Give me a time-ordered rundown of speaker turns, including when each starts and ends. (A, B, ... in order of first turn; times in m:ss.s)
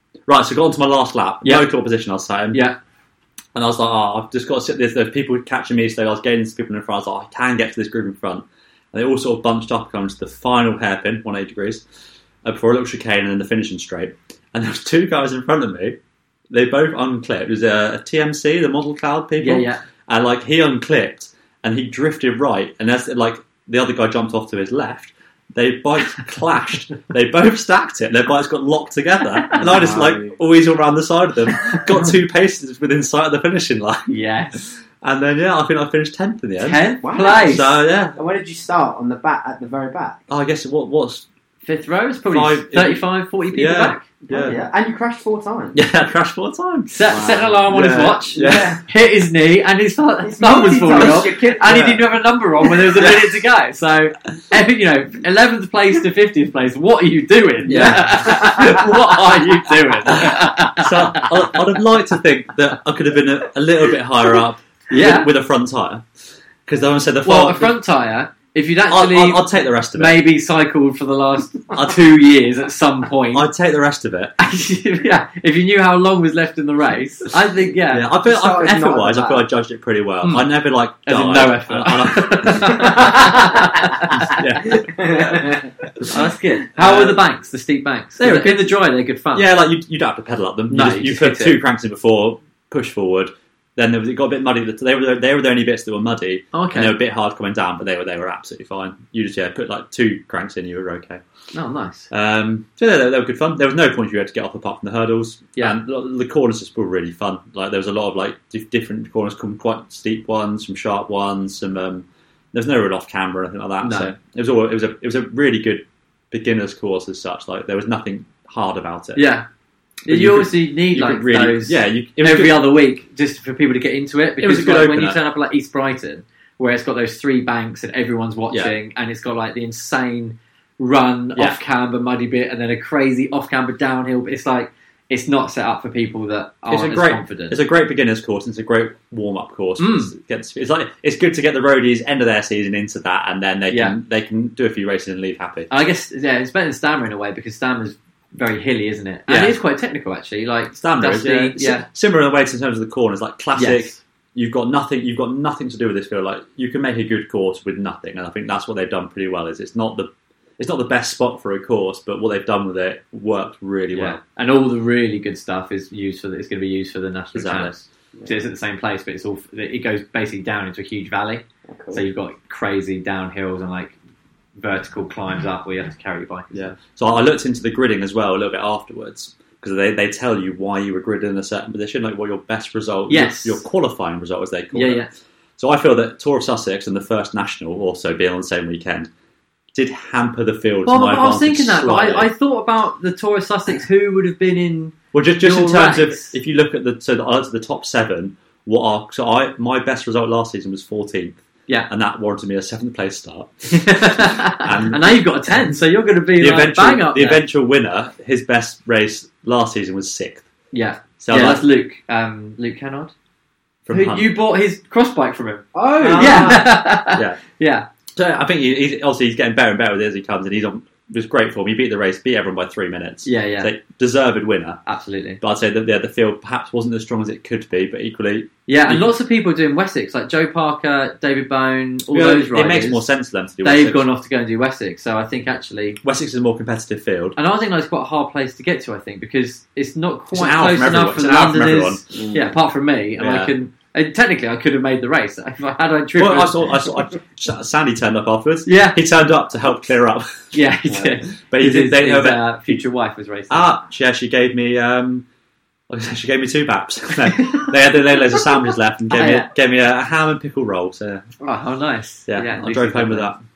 0:00.3-0:02.6 A
0:02.5-0:02.8 B
0:03.6-0:11.8 A
0:12.4-0:16.0 A
0:16.5-0:36.9 A
0:19.4-0:19.8 B
0:29.5-0:30.0 B
0:29.6-0:30.4 C
0:34.1-0:34.6 B
0:36.6-0:37.8 B
0:37.0-0:40.2 C
0:37.4-0:38.2 A
0:40.3-0:41.3 A
0:41.6-0:44.7 B
0:42.3-0:44.6 A
0:44.2-0:45.8 C
0:45.7-0:48.8 A
0:46.9-1:01.6 B
0:47.1-0:47.7 C
0:48.3-0:48.8 C
0:50.2-0:51.9 C
0:51.0-0:52.0 A
0:52.7-0:53.4 A
0:57.7-0:58.8 A
0:57.7-0:58.8 C
1:00.1-1:06.0 A
1:04.9-1:05.3 B
1:06.7-1:07.7 A
1:07.2-1:13.5 B
1:08.9-1:10.2 A
1:13.3-1:14.4 A
1:14.4-1:18.1 B
1:17.9-1:27.2 A
1:18.2-1:19.5 C
1:20.2-1:20.5 B
1:21.0-1:24.4 B
1:24.7-1:25.7 C
1:26.1-1:29.5 B
1:28.2-1:28.8 A
1:29.3-1:41.2 A
1:30.7-1:31.6 B
1:36.5-1:37.0 B
1:41.5-1:42.1 B
1:42.1-1:59.2 A
1:53.8-1:54.1 B
1:59.2-1:59.5 B
2:00.1-2:02.7 A
2:00.1-2:17.6 B
2:04.4-2:05.2 A
2:16.7-2:25.7 A
2:19.8-2:20.1 B
2:23.7-2:24.0 B
2:25.7-2:31.9 B
2:29.3-2:29.6 A
2:30.8-2:44.2 A
2:33.6-2:34.0 B
2:43.9-2:54.0 B
2:47.3-2:47.8 A
2:51.7-2:52.0 C
2:54.6-2:56.7 B
2:56.5-3:05.1 A
3:03.1-3:03.6 B
3:04.7-3:05.1 B
3:05.6-3:09.1 A
3:09.7-3:12.3 A
3:10.9-3:16.3 B
3:15.1-3:25.2 A
3:23.7-3:27.4 B
3:26.4-3:30.5 A
3:30.7-3:33.1 B
3:31.2-3:31.6 A
3:33.9-3:34.3 A
3:33.9-3:37.9 B
3:35.7-3:36.6 C
3:36.0-3:37.4 A
3:38.2-3:44.8 A
3:43.2-3:43.7 B
3:44.9-3:45.4 B
3:45.4-3:49.1 A
3:48.7-3:53.0 B
3:52.1-3:54.1 A
3:53.6-3:56.0 B
3:56.0-3:57.4 A
3:57.4-4:06.7 B
4:00.3-4:02.0 A
4:02.1-4:02.5 C
4:03.2-4:03.5 A
4:06.2-4:10.5 A
4:08.7-4:09.0 B
4:10.5-4:13.7 B
4:11.5-4:12.8 A
4:13.5-4:15.2 A
4:15.9-4:21.3 A
4:19.1-4:19.5 B
4:21.4-4:23.3 B
4:22.3-4:23.4 A